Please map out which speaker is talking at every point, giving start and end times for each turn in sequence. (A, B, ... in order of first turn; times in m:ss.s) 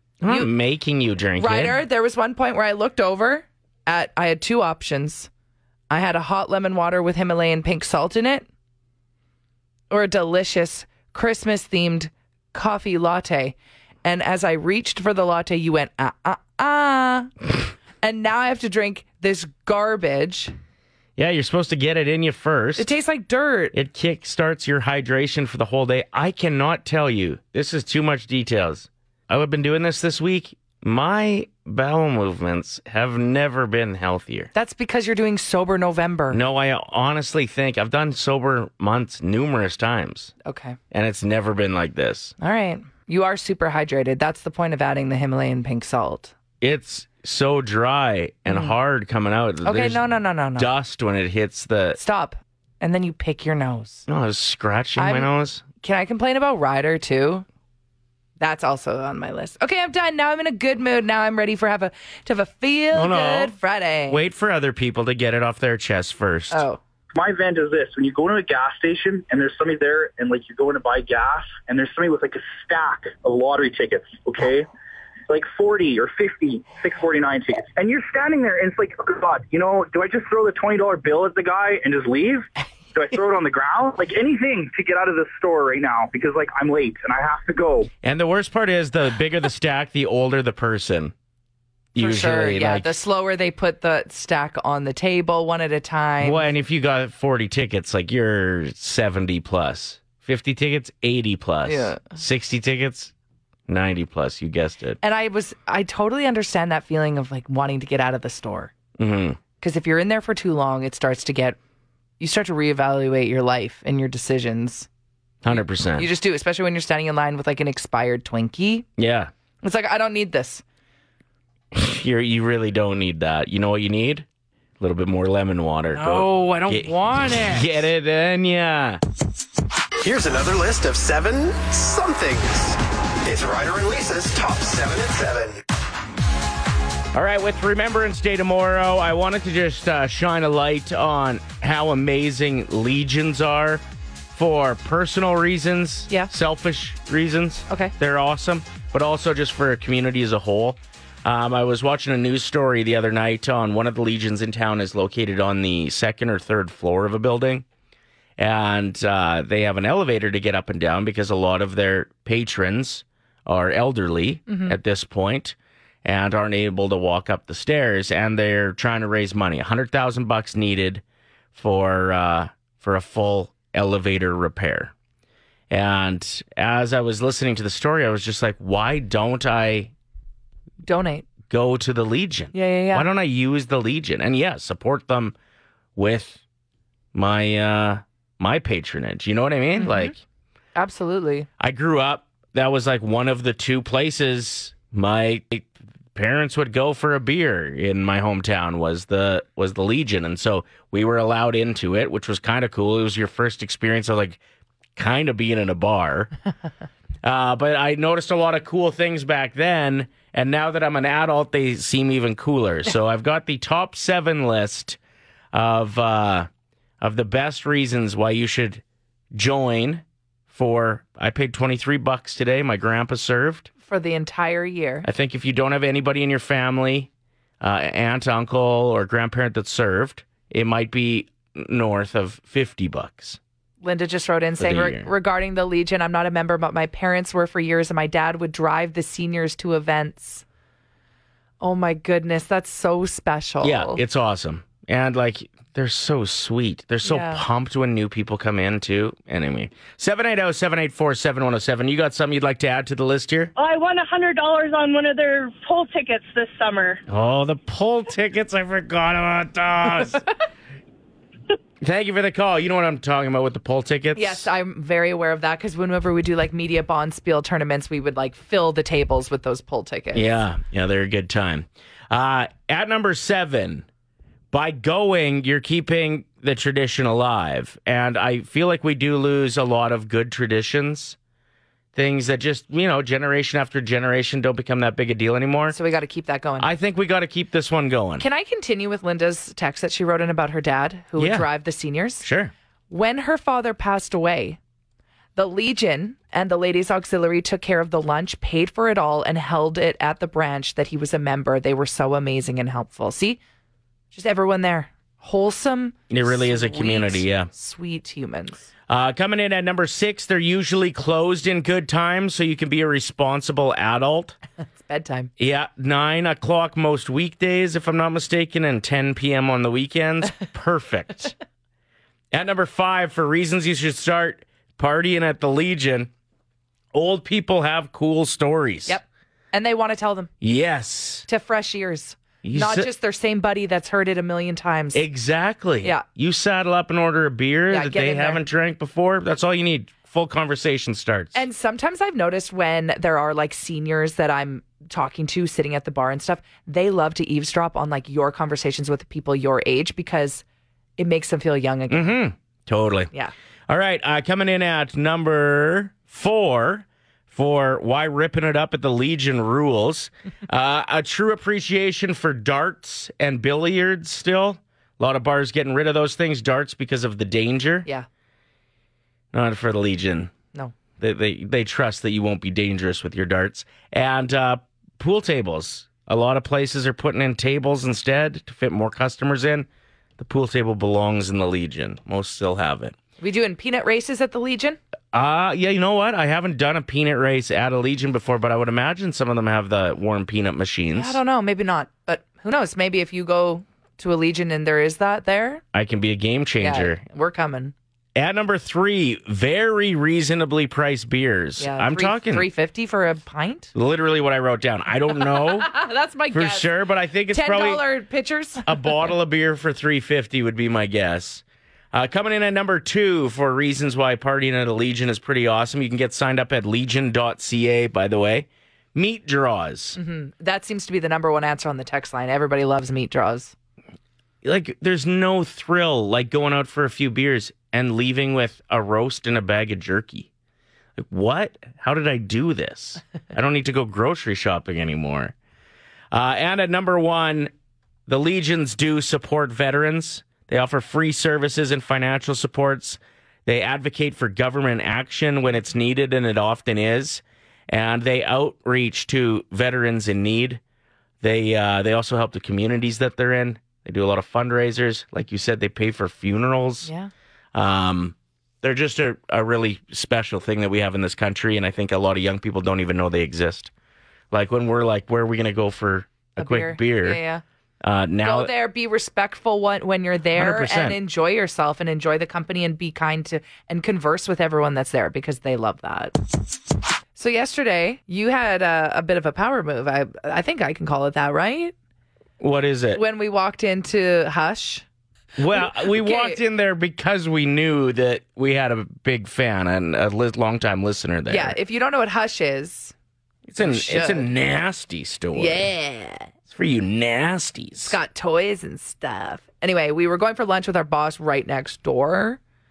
0:00.2-0:01.8 A
0:01.4-0:05.3 B
0:05.9-0:08.5 B
0:09.9-0:17.3 B
0:18.0-0:20.5 B
0:21.2-0:22.9 A
0:22.8-0:23.7 B
0:23.7-0:34.5 A
0:34.5-0:36.4 B
0:36.3-0:40.3 A
0:40.4-0:40.8 B
0:40.9-0:42.3 A
0:42.4-0:46.3 B
0:46.6-0:50.0 A
0:48.5-0:48.7 B
0:49.6-0:50.7 B
0:50.6-0:52.0 A
0:51.9-0:54.1 B
0:54.1-0:55.6 A
0:55.0-0:57.4 B
0:58.4-1:04.2 B
1:02.9-1:03.6 A
1:04.1-1:06.6 A
1:06.5-1:06.8 B
1:07.1-1:14.7 C
1:15.3-1:27.9 C
1:28.0-1:31.1 A
1:31.9-1:33.0 A
1:32.0-1:36.5 B
1:36.2-1:43.1 A
1:41.6-1:42.0 B
1:43.7-1:45.0 A
1:45.0-1:48.7 B
1:49.0-1:49.4 A
1:49.6-1:51.6 B
1:52.2-1:54.9 B
1:55.4-1:56.1 A
1:56.0-1:58.8 B
1:59.0-1:59.3 A
1:59.6-2:00.6 B
2:01.7-2:04.2 A
2:04.8-2:09.0 A
2:05.9-2:07.8 B
2:10.0-2:15.6 D
2:17.1-2:23.8 A
2:24.3-2:37.6 A
2:38.4-2:51.0 A
2:44.5-2:44.7 B
2:51.5-2:54.9 A
2:55.7-2:59.9 A
3:00.8-3:01.3 B
3:01.5-3:05.3 A
3:02.5-3:03.1 B
3:06.0-3:06.4 A
3:07.1-3:10.2 A
3:09.8-3:10.1 B
3:10.7-3:11.5 B
3:11.6-3:24.4 A
3:25.0-3:26.3 A
3:27.2-3:35.0 A
3:35.5-3:36.5 A
3:37.0-3:38.8 A
3:39.3-3:43.7 A
3:43.8-3:45.1 B
3:45.0-3:47.1 A
3:47.6-3:53.4 A
3:53.8-4:00.4 B
3:54.6-3:55.1 A
4:01.6-4:04.0 B
4:03.6-4:13.5 A
4:07.0-4:07.4 B
4:13.6-4:17.0 E
4:17.1-4:20.2 A
4:21.8-4:24.5 A
4:24.1-4:30.3 B
4:30.1-4:33.8 A
4:34.5-4:41.2 A
4:41.9-4:45.8 A
4:45.7-4:46.7 B
4:46.6-4:48.2 A
4:48.2-4:52.2 B
4:51.2-4:51.5 A
4:52.2-4:52.5 A
4:52.9-4:54.6 B
4:55.4-5:03.4 B
5:04.1-5:08.7 B
5:06.1-5:07.5 A
5:08.9-5:14.4 A
5:14.6-5:15.3 B
5:15.4-5:21.3 A
5:22.3-5:26.1 A
5:26.9-5:29.0 A
5:28.9-5:30.3 B
5:30.4-5:31.3 A
5:31.3-5:35.0 B
5:32.4-5:32.9 A
5:34.9-5:41.4 A
5:37.7-5:38.4 B
5:41.3-5:50.4 B
5:51.0-5:52.2 B
5:51.9-5:53.1 A
5:53.7-6:07.9 A
6:09.3-6:10.3 A
6:11.0-6:19.7 A
6:20.2-6:22.9 A
6:23.2-6:24.8 B
6:25.1-6:31.2 A
6:30.9-6:35.6 B
6:35.7-6:37.0 A
6:36.6-6:37.7 B
6:38.1-6:42.5 A
6:41.6-6:43.7 B
6:43.7-6:45.7 A
6:45.2-6:46.7 B
6:46.3-6:47.8 A
6:47.3-6:48.7 B
6:48.6-7:00.0 A
7:00.0-7:03.5 B
7:04.4-7:10.3 A
7:11.0-7:15.3 A
7:16.1-7:17.5 A
7:18.1-7:30.6 A
7:31.2-7:36.9 A
7:36.8-7:37.1 B
7:37.5-7:43.7 A
7:44.3-7:47.2 A
7:46.4-7:47.4 B
7:47.8-7:48.5 A
7:48.2-7:56.2 B
7:50.3-7:51.0 A
7:57.2-8:01.7 B
8:02.4-8:03.0 A
8:02.9-8:04.8 B
8:05.4-8:11.6 A
8:05.7-8:06.4 B
8:11.3-8:12.9 B
8:13.5-8:15.7 A
8:13.6-8:14.3 B
8:15.3-8:16.3 B
8:16.5-8:18.0 A
8:17.8-8:22.4 B